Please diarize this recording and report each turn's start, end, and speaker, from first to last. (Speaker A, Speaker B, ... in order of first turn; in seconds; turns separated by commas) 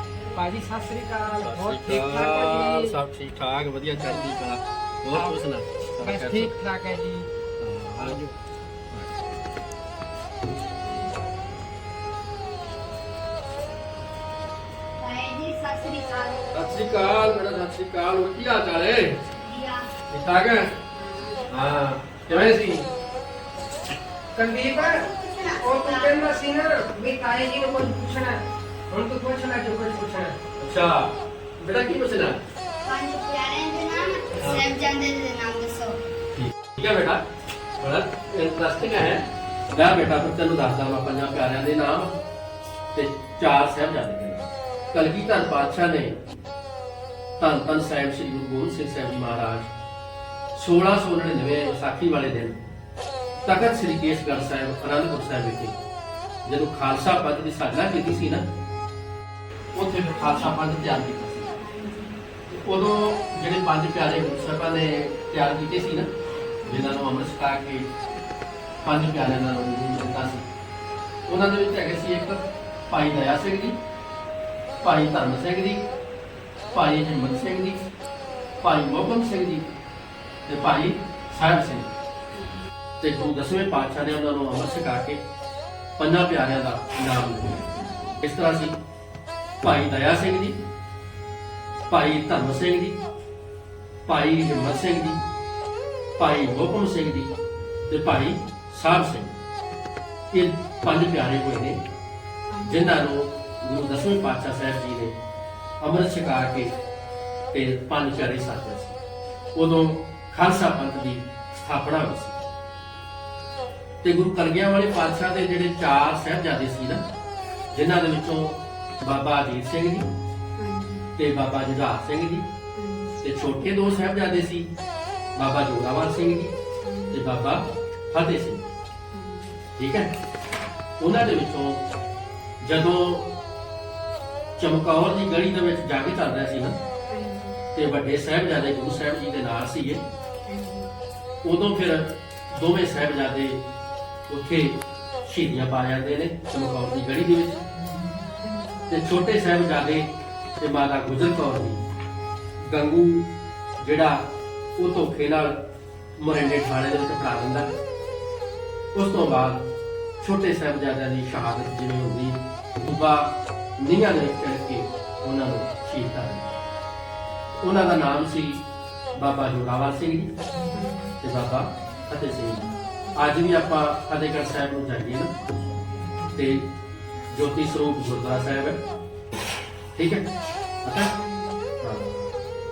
Speaker A: 0.3-3.0, Speaker B: 1.3-6.6, Speaker A: 6.0-7.3, Speaker B: 7.6-8.3, Speaker A: 8.0-8.3, Speaker C: 15.0-16.4, Speaker B: 16.5-19.2, Speaker C: 19.4-19.9, Speaker B: 20.1-20.7, Speaker C: 20.9-21.5, Speaker B: 21.5-22.9, Speaker A: 22.3-22.8, Speaker A: 24.4-25.1, Speaker C: 24.8-26.4, Speaker A: 25.6-30.4, Speaker B: 30.6-32.4, Speaker C: 32.8-36.0, Speaker B: 34.4-34.6, Speaker B: 36.4-37.2, Speaker B: 37.8-42.2, Speaker B: 42.9-46.2, Speaker B: 47.4-49.7, Speaker B: 50.5-52.6, Speaker B: 53.4-55.8, Speaker B: 56.5-58.5, Speaker B: 59.7-61.5, Speaker C: 60.2-60.5, Speaker C: 61.6-62.2, Speaker B: 62.5-66.1, Speaker C: 66.6-67.0, Speaker B: 66.6-67.9, Speaker B: 68.8-70.5, Speaker B: 71.3-73.8, Speaker B: 74.8-75.8, Speaker B: 76.7-77.8, Speaker B: 78.6-79.7, Speaker B: 80.5-81.9, Speaker C: 82.3-82.6, Speaker B: 83.0-85.2, Speaker B: 86.0-87.7, Speaker B: 88.2-88.8, Speaker B: 89.6-90.6, Speaker B: 91.9-93.0, Speaker B: 94.1-95.2, Speaker B: 96.2-97.3, Speaker B: 97.9-99.3, Speaker B: 100.3-101.8, Speaker C: 102.5-102.9, Speaker B: 102.6-105.2, Speaker B: 105.8-106.7, Speaker B: 107.5-109.0, Speaker B: 109.5-112.4, Speaker B: 114.0-117.0, Speaker B: 117.7-120.1, Speaker C: 120.6-121.1, Speaker B: 121.2-122.5, Speaker C: 122.8-123.2, Speaker B: 123.2-124.7, Speaker B: 125.4-126.5, Speaker C: 126.8-127.2, Speaker B: 127.1-128.6, Speaker C: 129.1-129.6, Speaker B: 129.8-130.1, Speaker B: 131.0-131.8, Speaker B: 132.6-133.3, Speaker B: 134.6-136.8, Speaker C: 137.1-137.6, Speaker B: 137.7-140.0, Speaker C: 140.5-140.9, Speaker B: 141.4-143.6, Speaker B: 144.3-147.6, Speaker C: 148.4-148.7, Speaker B: 148.9-151.8, Speaker B: 152.6-154.3, Speaker B: 154.8-155.6, Speaker B: 156.2-157.7, Speaker B: 158.9-159.6, Speaker B: 160.2-166.6, Speaker B: 167.6-168.6, Speaker B: 169.2-170.3, Speaker C: 170.7-171.1, Speaker B: 171.2-175.3, Speaker B: 176.3-176.7, Speaker B: 177.3-178.8, Speaker B: 179.9-180.3, Speaker B: 180.8-181.1, Speaker C: 181.2-181.5, Speaker B: 181.8-182.3